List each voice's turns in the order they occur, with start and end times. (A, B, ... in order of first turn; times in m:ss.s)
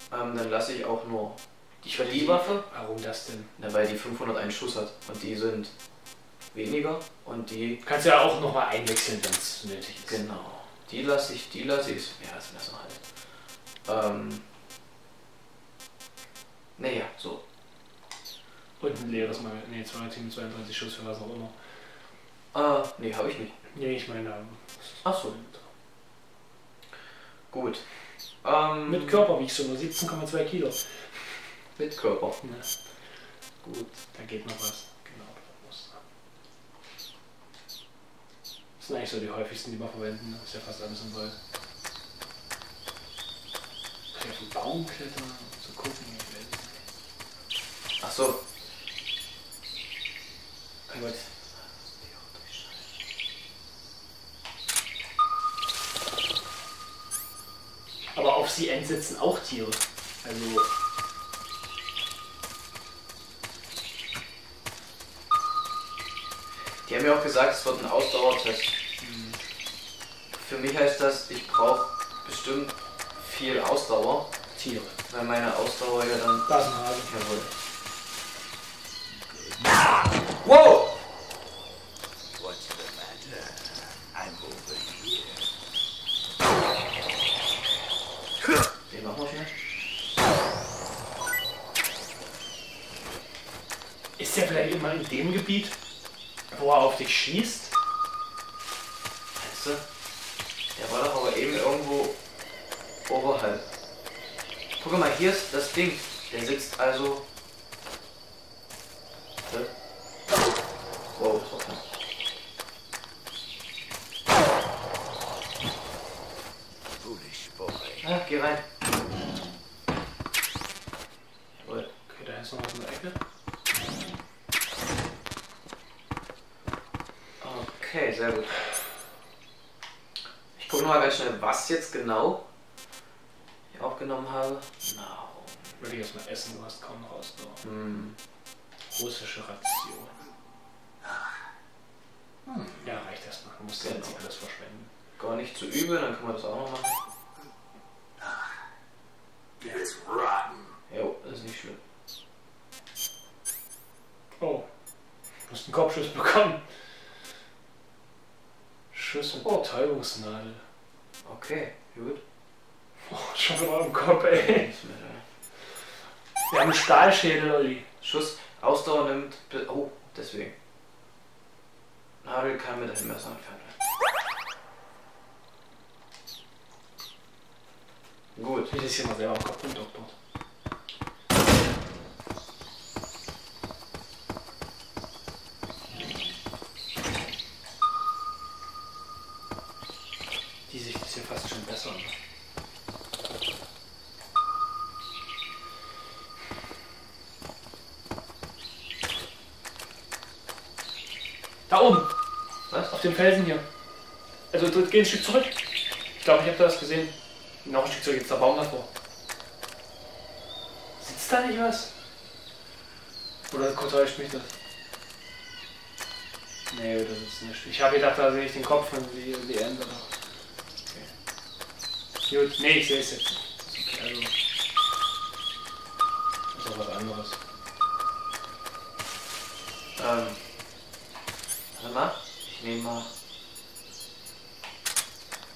0:00.1-0:02.7 A
0:01.8-0:03.5 B
0:03.6-0:07.8 A
0:07.8-0:10.3 B
0:10.1-0:14.4 A
0:16.8-0:17.4 A
0:18.8-0:22.1 B
0:22.5-0:23.6 A
0:23.7-0:25.7 B
0:25.0-0:25.4 A
0:27.5-0:29.3 A
0:28.8-0:31.6 B
0:31.8-0:32.4 A
0:32.4-0:36.0 B
0:33.6-0:34.0 A
0:38.8-0:41.4 B
0:44.1-0:46.8 B
0:48.0-0:48.4 A
0:50.9-0:51.4 B
0:51.3-0:52.8 A
0:58.1-1:00.7 B
1:06.8-1:08.8 A
1:09.0-1:09.4 B
1:10.3-1:14.4 A
1:14.5-1:15.0 B
1:15.1-1:17.6 A
1:16.4-1:17.1 B
1:19.1-1:20.0 C
1:20.4-1:21.0 A
1:22.4-1:25.5 C
1:28.9-1:29.5 A
1:34.2-1:35.8 B
1:36.4-1:37.7 B
1:39.4-1:39.8 A
1:40.8-1:42.2 A
1:43.0-1:43.7 A
1:44.8-1:47.2 A
1:49.4-1:49.7 A
1:51.1-1:51.8 A
1:57.0-1:58.0 C
1:58.0-1:58.6 A
2:01.6-2:01.9 A
2:02.0-2:03.2 B
2:07.4-2:08.5 A
2:10.6-2:12.4 A
2:13.7-2:15.8 A
2:15.8-2:17.6 B
2:17.6-2:18.2 A
2:18.9-2:20.2 B
2:22.4-2:24.9 B
2:23.8-2:24.2 A
2:25.2-2:27.0 A
2:29.6-2:29.9 B
2:29.7-2:30.5 C
2:30.9-2:31.8 A
2:34.4-2:37.0 B
2:38.9-2:40.6 B
2:41.2-2:42.2 A
2:43.1-2:44.7 B
2:44.2-2:45.4 A
2:46.4-2:47.9 B
2:48.0-2:50.5 A
2:52.2-2:53.7 A
2:58.4-2:58.7 A
2:58.7-3:00.1 B
3:10.7-3:12.1 B
3:21.7-3:28.9 B
3:22.7-3:22.9 A
3:31.0-3:32.0 B
3:33.5-3:34.5 B
3:36.7-3:40.5 B
3:40.9-3:41.1 A
3:42.2-3:44.4 B
3:46.5-3:47.4 B
3:50.0-3:50.4 A
3:51.7-3:53.1 A